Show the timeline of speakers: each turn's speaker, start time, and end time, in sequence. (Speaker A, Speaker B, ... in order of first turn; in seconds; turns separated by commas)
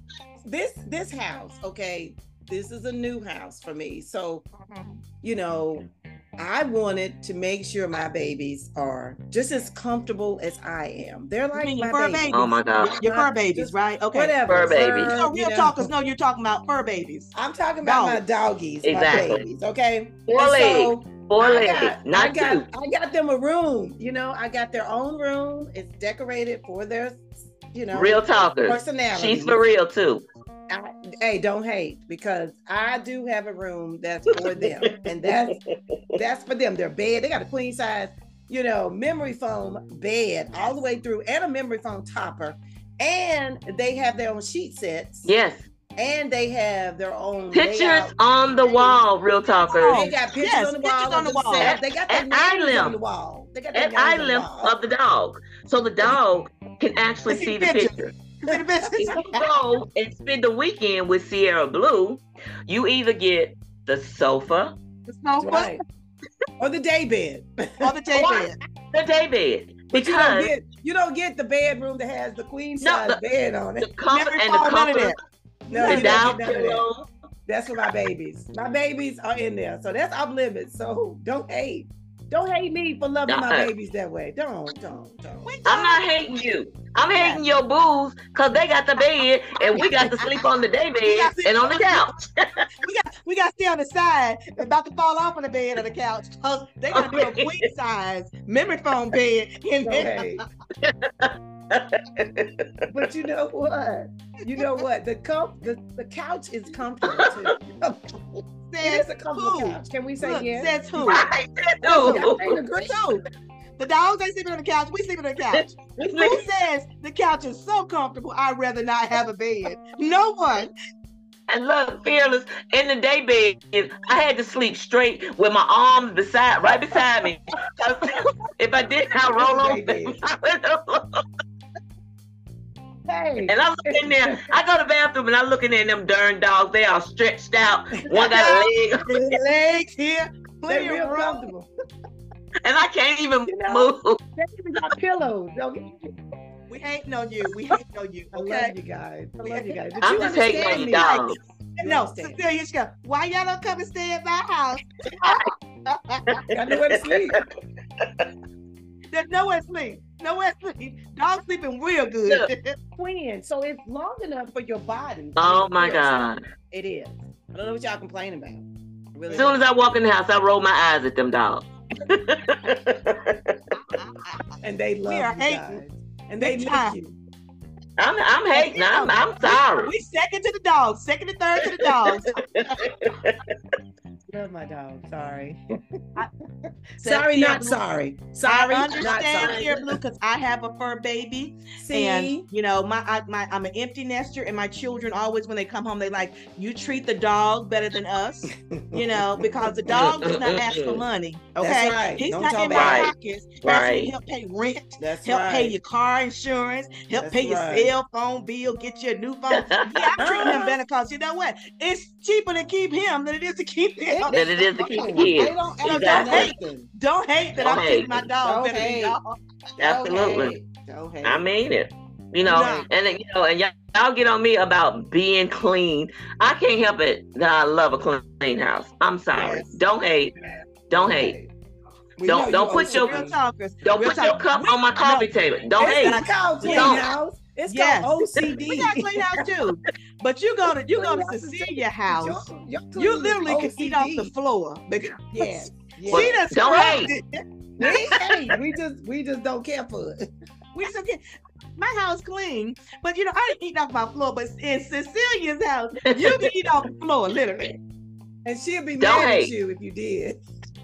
Speaker A: 0.5-4.5, Speaker B: 4.6-5.0, Speaker A: 5.2-15.9, Speaker B: 11.5-14.4, Speaker C: 12.3-13.0, Speaker C: 14.5-15.2, Speaker B: 15.1-17.3, Speaker A: 17.3-29.6, Speaker B: 17.8-18.2, Speaker C: 18.8-19.4, Speaker C: 20.3-22.7, Speaker C: 27.9-30.2, Speaker A: 30.7-35.6, Speaker C: 34.3-35.6, Speaker A: 36.1-45.3, Speaker C: 45.3-45.6, Speaker A: 46.0-49.0, Speaker C: 47.5-50.1, Speaker B: 49.7-51.7, Speaker A: 49.8-54.8, Speaker C: 51.6-53.0, Speaker C: 53.7-58.1, Speaker B: 57.3-59.4, Speaker C: 59.0-64.8, Speaker B: 65.1-65.8, Speaker A: 65.4-65.8, Speaker A: 66.6-68.4, Speaker B: 67.8-68.6, Speaker C: 68.9-70.5, Speaker A: 69.9-73.9, Speaker C: 72.8-73.2, Speaker C: 73.8-75.2, Speaker B: 74.1-75.2, Speaker A: 75.7-76.9, Speaker B: 75.7-76.3, Speaker C: 75.8-77.1, Speaker A: 77.5-85.5, Speaker C: 83.3-83.7, Speaker B: 85.5-86.0, Speaker C: 85.7-92.7, Speaker B: 87.1-87.4, Speaker B: 89.8-90.4, Speaker B: 91.0-92.1, Speaker B: 92.8-100.4, Speaker C: 96.9-97.6, Speaker A: 99.8-100.4, Speaker C: 100.8-102.7, Speaker A: 102.9-111.2, Speaker C: 107.1-107.5, Speaker B: 108.7-111.3, Speaker C: 111.0-112.6, Speaker A: 111.8-113.1, Speaker B: 111.9-112.3, Speaker B: 112.8-113.2, Speaker B: 113.8-120.7, Speaker C: 115.5-116.5, Speaker C: 121.5-131.2, Speaker A: 129.1-130.2, Speaker A: 133.1-134.6, Speaker C: 133.5-139.2, Speaker B: 138.1-141.5, Speaker A: 140.7-141.7, Speaker C: 142.6-144.2, Speaker A: 143.4-146.1, Speaker B: 146.7-148.7, Speaker A: 148.3-151.2, Speaker B: 149.4-156.4, Speaker C: 150.0-151.4, Speaker A: 151.8-152.4, Speaker C: 156.3-157.4, Speaker A: 156.5-157.4, Speaker C: 158.0-158.3, Speaker B: 159.1-162.8, Speaker A: 163.0-169.6, Speaker C: 165.4-166.4, Speaker C: 169.3-173.6, Speaker B: 173.9-174.5, Speaker A: 174.6-177.2, Speaker B: 175.1-175.8, Speaker B: 176.4-177.0, Speaker C: 178.0-179.9, Speaker B: 178.5-182.9, Speaker C: 182.4-183.4, Speaker A: 184.3-185.6, Speaker A: 187.0-189.8, Speaker B: 187.0-187.8, Speaker B: 188.5-219.4, Speaker C: 189.1-189.7, Speaker A: 191.8-192.5, Speaker A: 198.7-199.8, Speaker C: 199.9-201.0, Speaker A: 201.6-203.1, Speaker C: 202.7-204.1, Speaker A: 205.0-205.8, Speaker A: 207.1-207.9, Speaker C: 209.5-210.1, Speaker A: 210.2-210.8, Speaker A: 214.1-216.9, Speaker C: 214.3-216.5, Speaker C: 217.6-218.2, Speaker A: 218.4-219.2, Speaker C: 219.8-220.5, Speaker A: 219.8-221.4, Speaker C: 221.2-230.3, Speaker B: 222.4-222.9, Speaker B: 229.3-229.7, Speaker C: 230.9-231.4, Speaker A: 230.9-231.5, Speaker A: 232.2-233.3, Speaker C: 232.2-233.3, Speaker B: 232.8-237.1, Speaker C: 233.8-237.1, Speaker A: 235.8-239.2, Speaker B: 237.7-248.2, Speaker A: 240.9-244.3, Speaker A: 245.3-246.4, Speaker C: 246.1-247.1, Speaker A: 247.8-250.2, Speaker B: 250.7-251.2, Speaker B: 251.8-257.8, Speaker C: 256.1-256.5, Speaker A: 258.4-260.4, Speaker C: 259.0-259.5